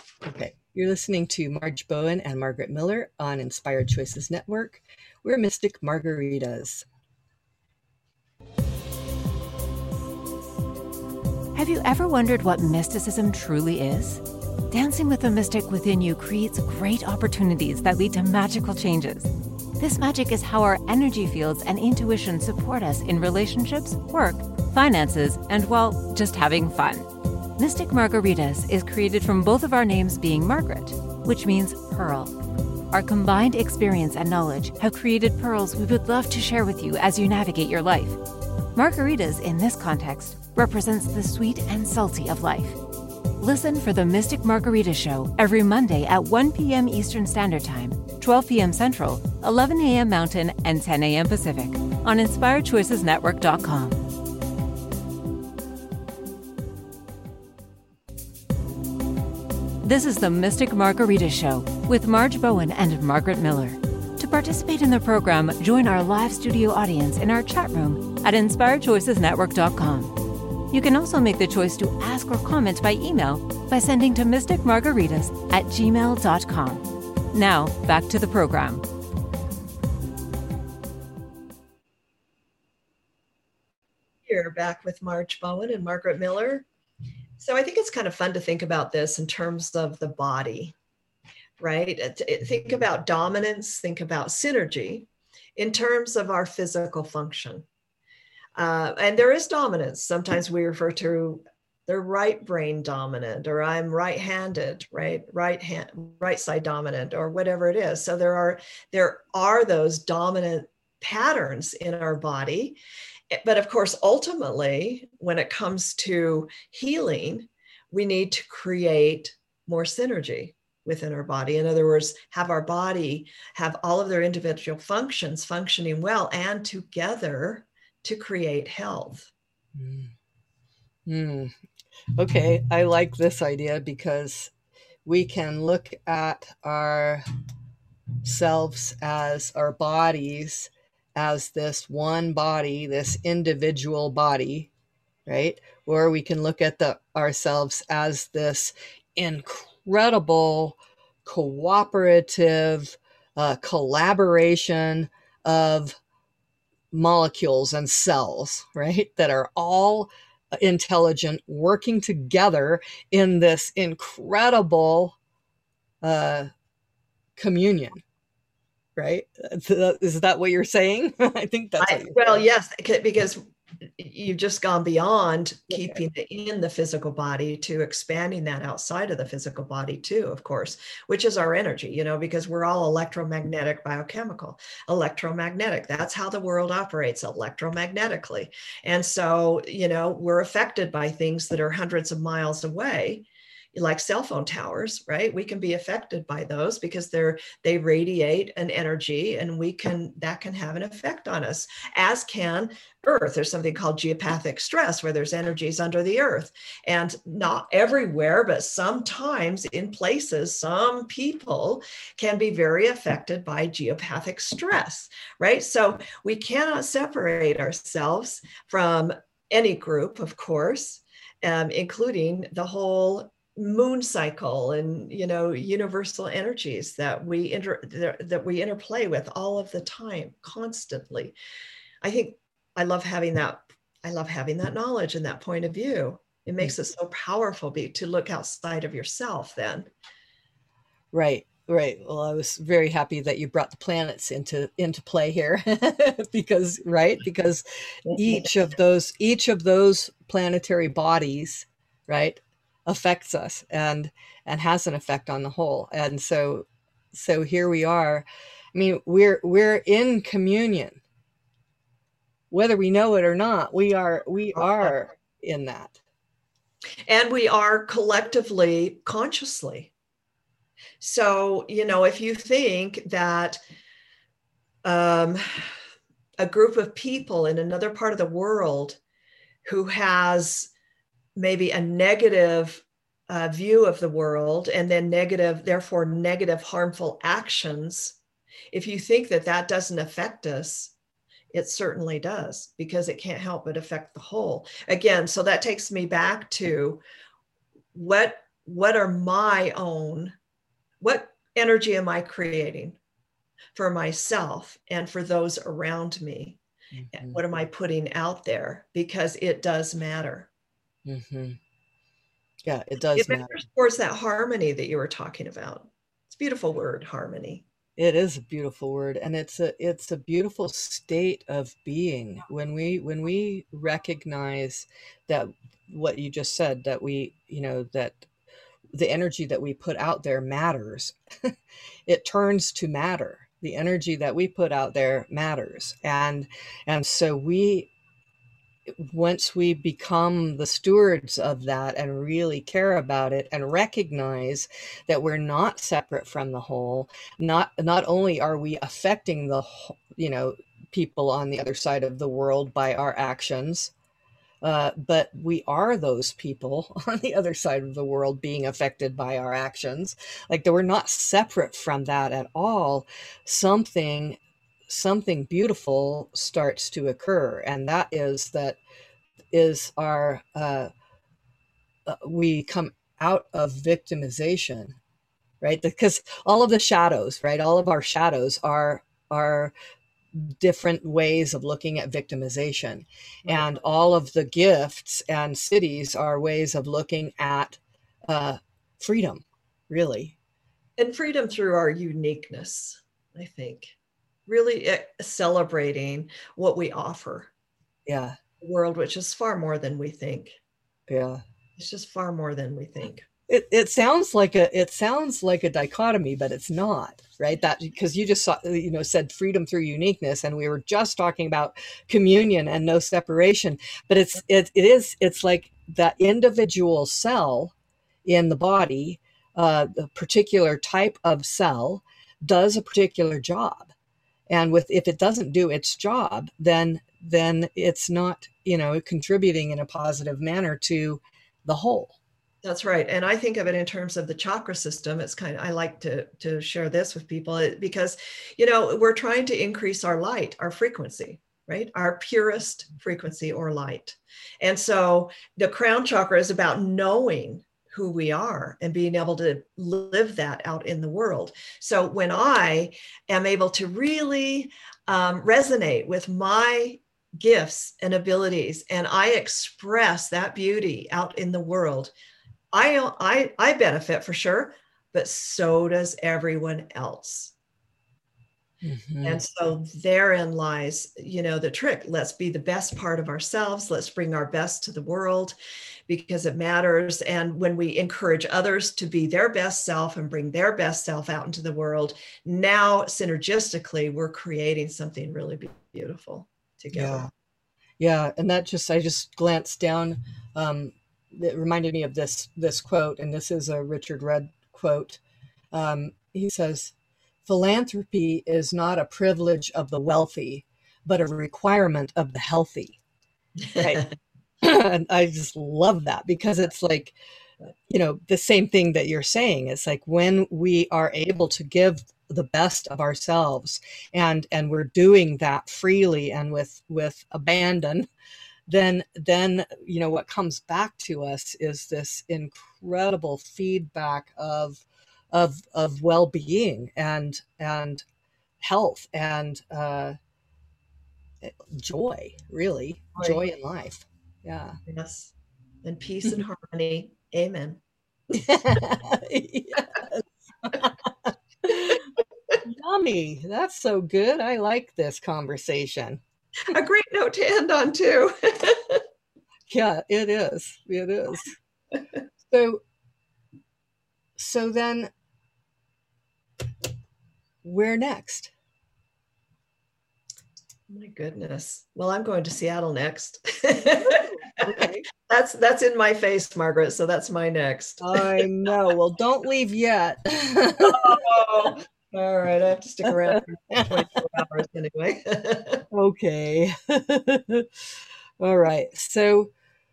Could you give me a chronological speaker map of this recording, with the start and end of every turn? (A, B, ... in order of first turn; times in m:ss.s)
0:00.2-0:06.8 A
0:11.5-0:32.3 B
0:32.9-0:38.2 B
0:38.7-0:42.8 B
0:43.4-0:54.0 B
0:59.8-1:10.2 B
1:10.7-1:18.8 B
1:24.3-1:26.6 C
1:27.4-1:30.7 C
1:31.6-1:37.6 C
1:38.6-1:52.8 C
1:53.3-2:09.3 C
2:09.7-2:10.1 A
2:11.0-2:11.5 A
2:12.2-2:14.5 A
2:15.0-2:17.2 A
2:18.2-2:24.7 A
2:25.2-2:36.0 A
2:36.9-2:45.2 A
2:46.0-2:46.5 A
2:47.4-2:48.0 A
2:49.0-2:52.4 A
2:51.8-2:53.4 C
2:54.0-3:51.3 C
2:55.7-2:56.0 A
3:52.0-3:59.9 C
4:01.1-4:21.0 A
4:22.5-4:26.0 A
4:27.0-4:29.9 C
4:31.0-4:33.6 C
4:34.8-4:35.7 C
4:36.4-4:39.0 C
4:39.6-4:40.7 C
4:41.4-4:48.2 C
4:48.7-4:50.9 C
4:51.5-4:57.0 C
4:57.9-5:00.3 C
5:01.0-5:03.0 C
5:03.7-5:06.6 C
5:06.9-5:07.4 A
5:07.1-5:10.5 C
5:11.0-5:11.6 A
5:12.6-5:13.6 A
5:13.1-5:17.6 C
5:18.0-5:28.2 A
5:28.9-5:31.5 A
5:32.1-5:37.9 A
5:38.9-5:53.9 A
5:54.6-6:08.8 A
6:09.5-6:10.9 A
6:12.0-6:15.0 A
6:15.6-6:19.7 A
6:20.3-6:30.3 A
6:23.4-6:23.7 C
6:31.0-6:33.9 C
6:34.5-6:37.5 C
6:38.0-6:38.4 A
6:38.6-6:40.6 C
6:41.1-6:41.4 A
6:41.8-6:43.2 C
6:43.5-6:57.7 A
6:58.2-7:03.9 A
7:04.5-7:12.2 A
7:12.6-7:42.1 C
7:42.7-7:47.5 C
7:48.8-7:49.4 A
7:49.2-7:55.5 C
7:56.1-8:07.3 C
8:06.9-8:07.3 A
8:08.0-8:15.2 A
8:15.7-8:16.9 A
8:17.4-8:23.0 A
8:23.8-8:24.0 A
8:23.8-8:24.0 C
8:24.6-8:27.2 A
8:27.9-8:38.1 A
8:38.7-8:48.0 A
8:48.6-8:50.1 A
8:51.4-8:54.8 A
8:53.2-8:53.4 C
8:54.9-8:55.3 C
8:55.8-8:57.8 C
8:58.3-9:02.0 A
9:02.6-9:06.2 A
9:06.7-9:09.0 C
9:09.7-9:11.5 A
9:12.5-9:12.8 A
9:14.4-9:15.1 A
9:17.6-9:18.5 A
9:20.9-9:28.4 C
9:24.1-9:25.0 A
9:28.0-9:31.2 A
9:30.8-9:35.8 C
9:33.0-9:34.2 A
9:35.9-9:37.8 A
9:38.4-9:39.5 A